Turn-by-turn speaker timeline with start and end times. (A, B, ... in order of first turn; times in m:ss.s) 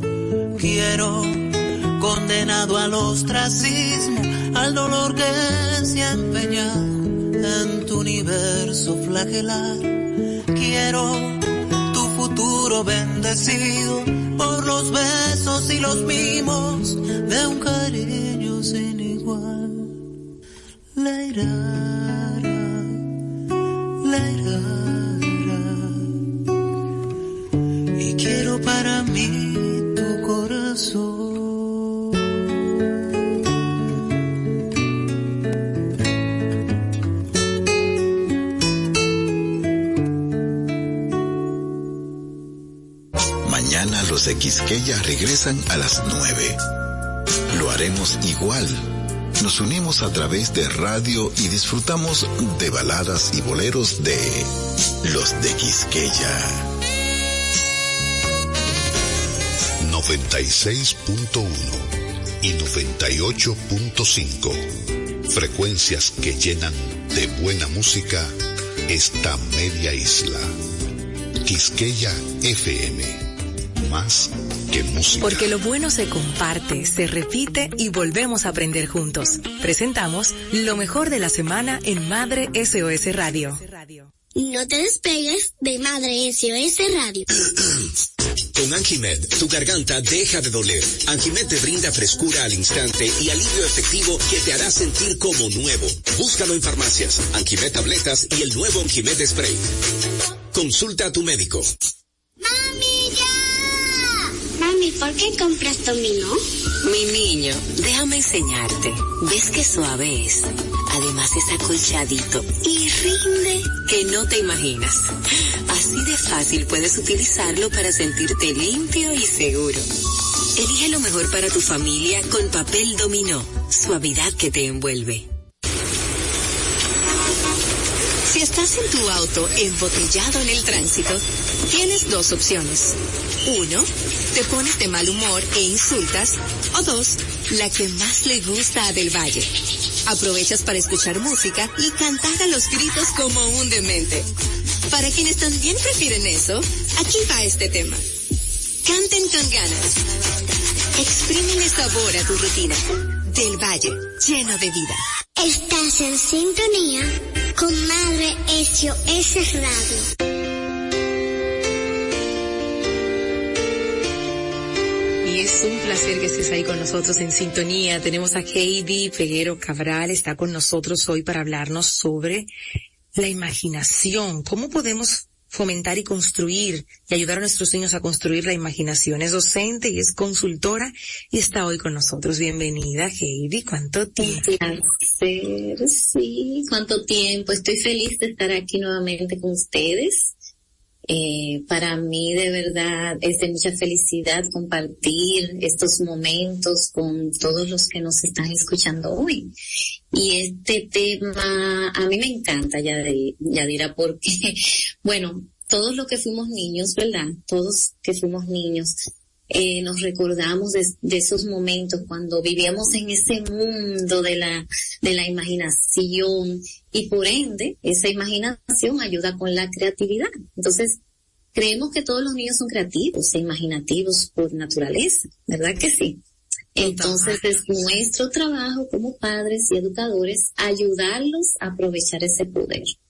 0:00.6-0:10.0 A
0:10.5-0:20.0 A
0:21.0-0:23.0 A
0:24.0-0:26.1 A
0:28.0-0:31.9 A
0:43.4-0:46.6 B
0:47.5-0:48.8 B
0:49.4-0:54.5 B
0:55.0-0:56.6 B
0:59.8-1:01.9 C
1:02.4-1:04.6 C
1:05.3-1:08.3 C
1:08.9-1:10.5 C
1:11.4-1:13.2 C
1:13.8-1:15.5 C
1:15.2-1:23.7 D
1:23.7-1:24.1 E
1:24.4-1:27.2 F
1:28.6-1:39.6 G
1:40.5-1:41.7 G
1:42.4-1:43.8 F
1:44.6-1:46.4 F
1:46.8-1:55.1 E
1:55.7-1:59.8 E
2:00.6-2:05.2 E
2:08.3-2:19.5 E
2:20.1-2:24.3 E
2:24.9-2:28.0 E
2:28.8-2:30.0 E
2:31.0-2:35.0 E
2:35.4-2:40.1 F
2:45.2-2:52.5 D
2:53.1-3:04.4 D
3:04.2-3:10.3 H
3:11.1-3:19.5 H
3:20.1-3:28.9 H
3:29.5-3:41.0 H
3:41.5-3:46.2 H
3:46.8-3:52.9 H
3:46.8-3:47.6 D